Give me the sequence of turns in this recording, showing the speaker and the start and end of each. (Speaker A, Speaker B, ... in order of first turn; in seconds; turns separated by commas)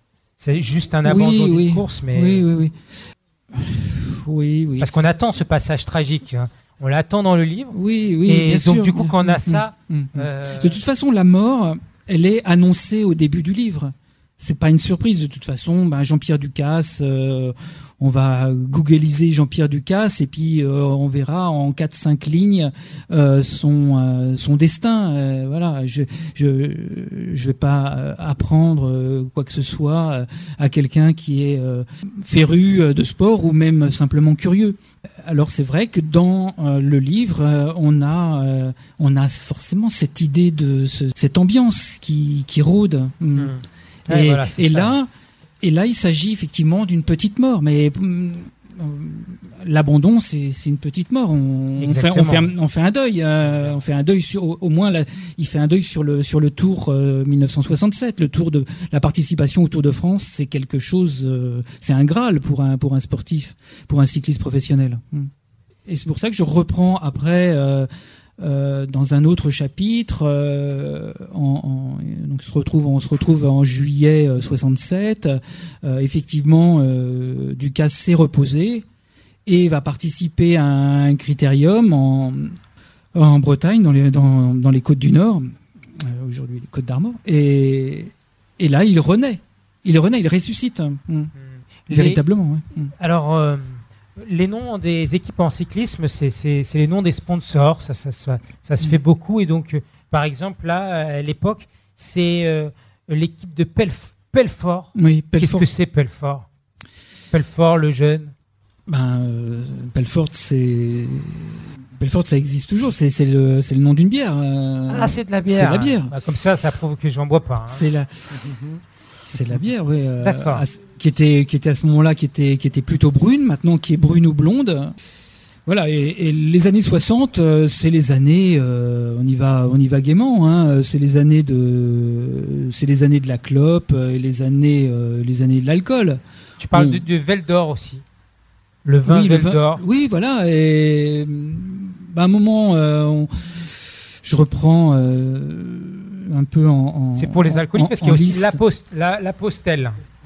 Speaker A: 0.4-2.5, Speaker B: 1.0-2.7, Speaker B: 3.5-4.9, Speaker A: 4.8-7.7, Speaker B: 7.7-43.5, Speaker A: 8.2-10.8, Speaker A: 43.4-45.0, Speaker B: 44.1-45.1, Speaker B: 45.6-65.3, Speaker A: 51.8-52.5, Speaker A: 53.4-53.8, Speaker B: 65.9-67.9, Speaker B: 68.4-78.8, Speaker B: 79.5-82.5, Speaker B: 83.1-91.3, Speaker A: 91.4-92.2, Speaker B: 91.9-92.9, Speaker A: 93.0-106.5, Speaker B: 104.9-105.7, Speaker A: 107.3-108.3, Speaker B: 108.9-116.5, Speaker A: 114.9-117.8, Speaker B: 117.7-118.3, Speaker B: 119.2-124.9, Speaker A: 120.2-120.6, Speaker B: 125.7-136.2, Speaker A: 136.6-138.0, Speaker B: 136.7-137.0, Speaker A: 138.8-139.8, Speaker B: 139.1-148.6, Speaker A: 147.1-150.0